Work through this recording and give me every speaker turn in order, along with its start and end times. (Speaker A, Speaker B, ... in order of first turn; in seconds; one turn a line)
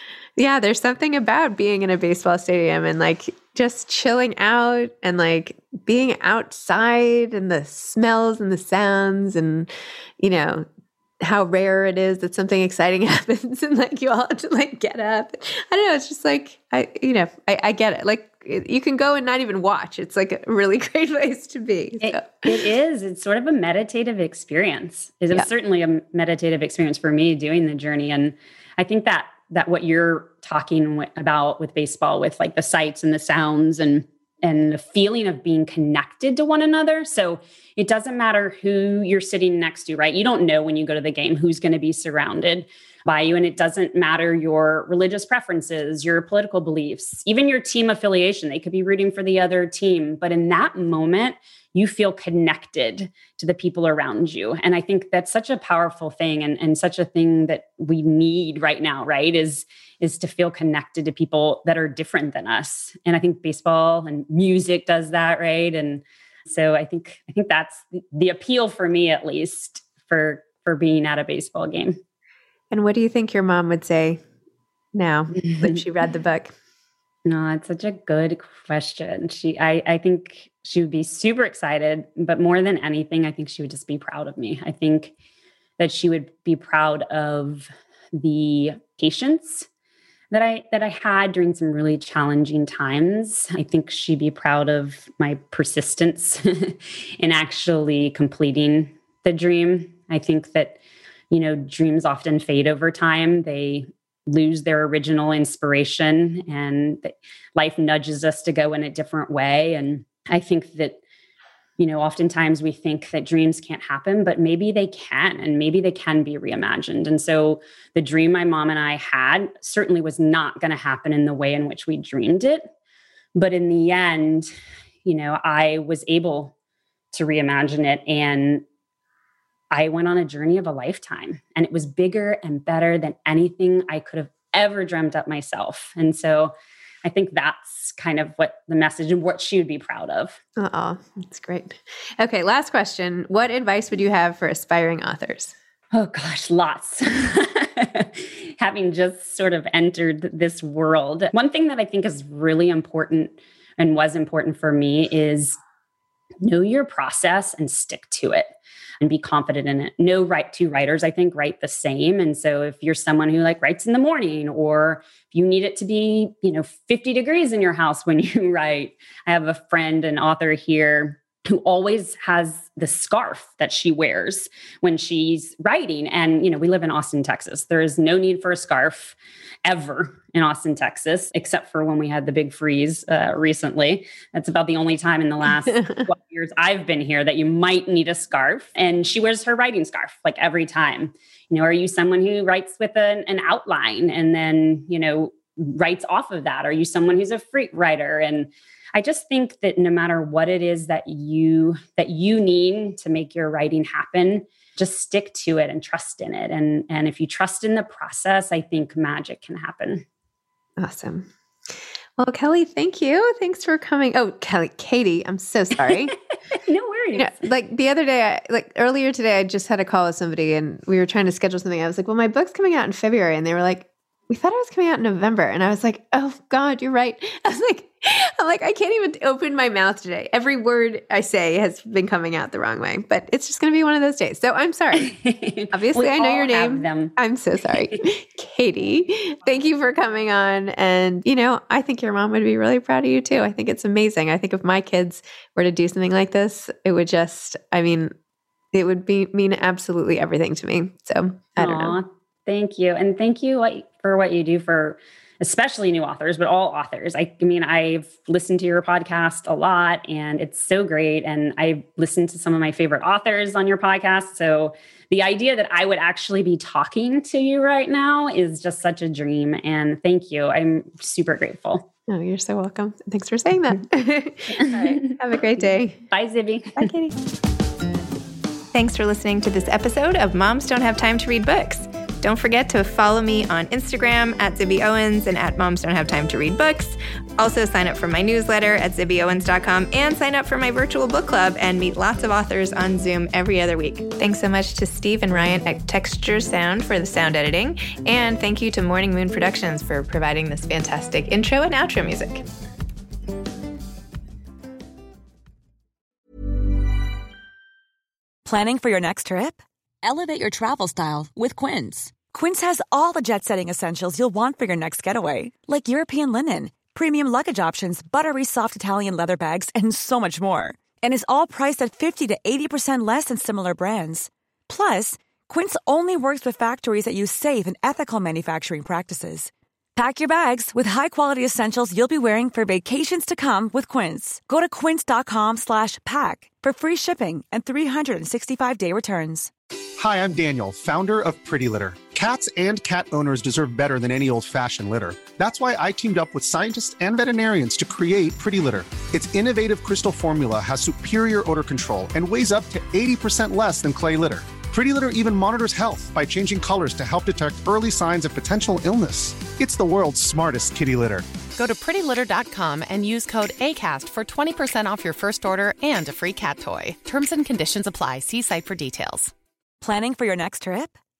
Speaker A: 0.4-10.7
Speaker A: 11.2-22.6
Speaker B: 22.0-72.0
Speaker A: 72.7-74.2
Speaker A: 74.9-76.5
Speaker B: 75.4-75.8
Speaker B: 77.2-85.1
Speaker B: 85.8-89.7
Speaker B: 90.3-100.8
Speaker B: 101.3-111.0
Speaker B: 111.8-122.7
Speaker B: 123.3-124.5
Speaker B: 125.0-126.5
Speaker B: 127.1-128.6
Speaker B: 129.7-136.5
Speaker B: 137.0-140.4
Speaker A: 140.6-145.5
Speaker B: 145.9-155.6
Speaker B: 156.4-210.0
Speaker A: 185.7-186.1
Speaker A: 210.8-211.3
Speaker A: 212.2-216.2
Speaker B: 216.5-217.4
Speaker A: 217.1-235.1
Speaker B: 235.0-237.1
Speaker A: 235.7-248.1
Speaker A: 248.7-252.0
Speaker B: 251.6-271.9
Speaker A: 272.1-276.0
Speaker B: 274.6-275.1
Speaker B: 276.1-276.9
Speaker A: 276.8-277.1
Speaker C: 278.7-302.4
Speaker D: 308.4-309.6
Speaker E: 310.0-312.2
Speaker D: 312.2-339.5
Speaker F: 340.0-361.2
Speaker E: 361.6-369.3
Speaker D: 369.8-371.0